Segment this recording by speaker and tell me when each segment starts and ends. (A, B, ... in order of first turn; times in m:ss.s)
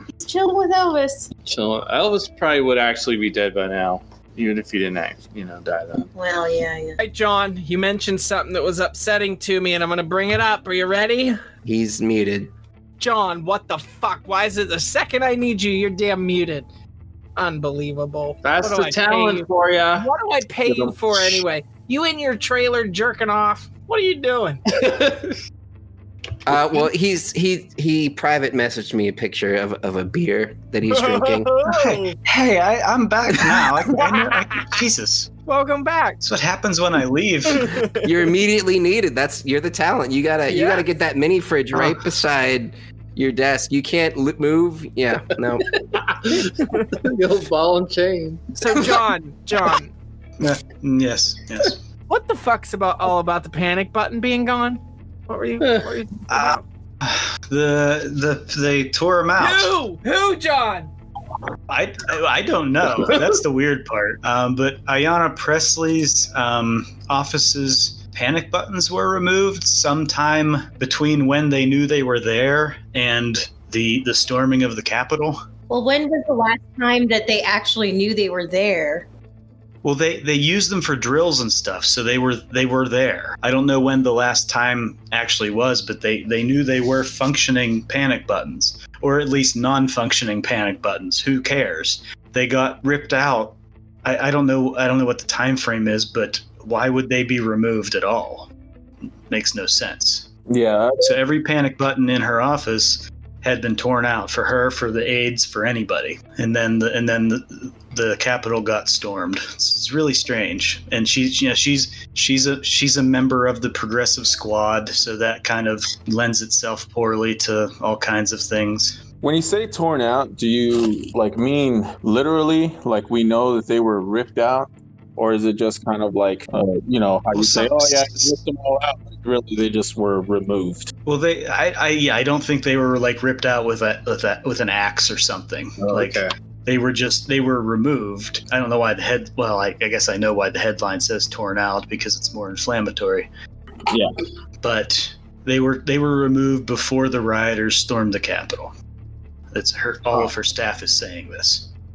0:00.2-0:01.3 A
0:01.4-0:06.1 B
0:06.1-0:07.0 A
0:07.0-0:11.4 C
0:11.6-0:12.5 D
0:13.0-0:16.7 C
0:17.4-0:19.5 C
0:18.4-0:20.1 B
0:20.0-0:24.7 C
0:24.7-0:25.4 B
0:26.4-0:31.5 D
0:30.9-0:32.2 C
0:31.7-0:35.3 E
0:33.6-0:34.8 C
0:35.5-0:36.2 C
0:36.2-0:37.8 E
0:37.6-0:37.9 C
0:38.0-0:45.8 D
0:40.5-0:40.9 C
0:45.9-0:49.0 B
0:48.6-0:49.9 C
0:50.4-0:51.8 E
0:52.1-0:56.6 C
0:55.6-0:55.9 B
0:56.3-0:59.8 E
0:59.4-1:00.9 C
1:01.7-1:15.4 E
1:03.0-1:03.3 B
1:15.7-1:19.1 A
1:19.8-1:38.5 E
1:39.3-1:40.3 E
1:40.5-1:41.2 F
1:41.0-1:59.0 E
1:59.2-2:10.9 F
2:07.3-2:08.3 E
2:11.1-2:23.3 E
2:15.8-2:16.3 B
2:24.6-2:28.7 E
2:29.5-2:31.7 E